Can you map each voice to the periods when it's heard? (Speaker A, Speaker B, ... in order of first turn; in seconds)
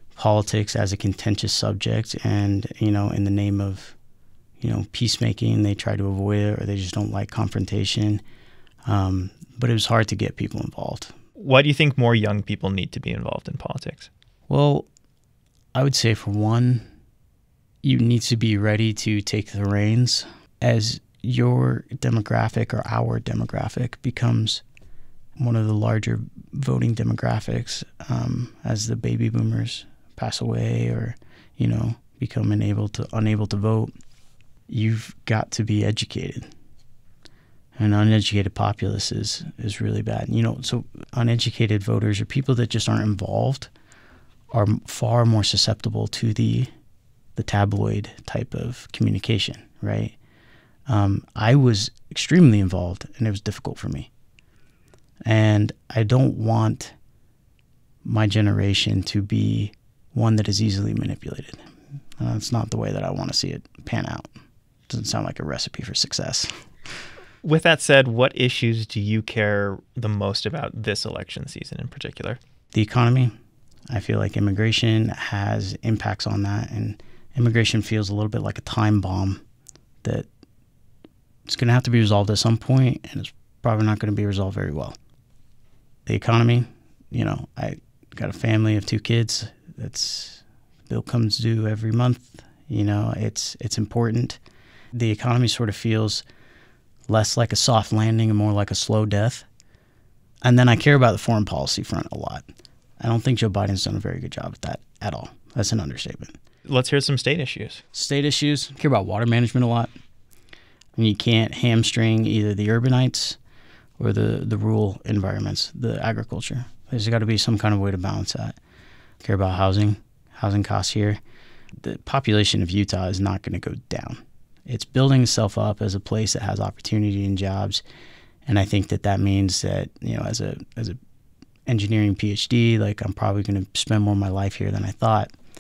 Speaker A: 0.2-3.9, 4.6-8.2, 8.9-11.1, 14.5-14.9, 15.7-16.9, 17.8-24.6, 25.4-33.9, 34.7-36.5, 37.8-43.7, 44.5-46.7, 47.4-50.1, 50.9-54.1, 55.3-57.0, 58.0-61.6, 62.2-64.3, 64.9-66.5, 72.7-73.3, 73.9-79.4, 81.5-85.0, 86.1-94.4, 95.0-96.2, 97.1-99.5, 100.4-102.4, 103.0-106.3, 107.9-109.9, 111.0-113.4, 114.0-118.6, 119.2-121.2, 121.8-127.8, 128.5-131.0, 131.7-135.3
Speaker B: 11.4-14.1, 67.4-72.4, 106.7-107.8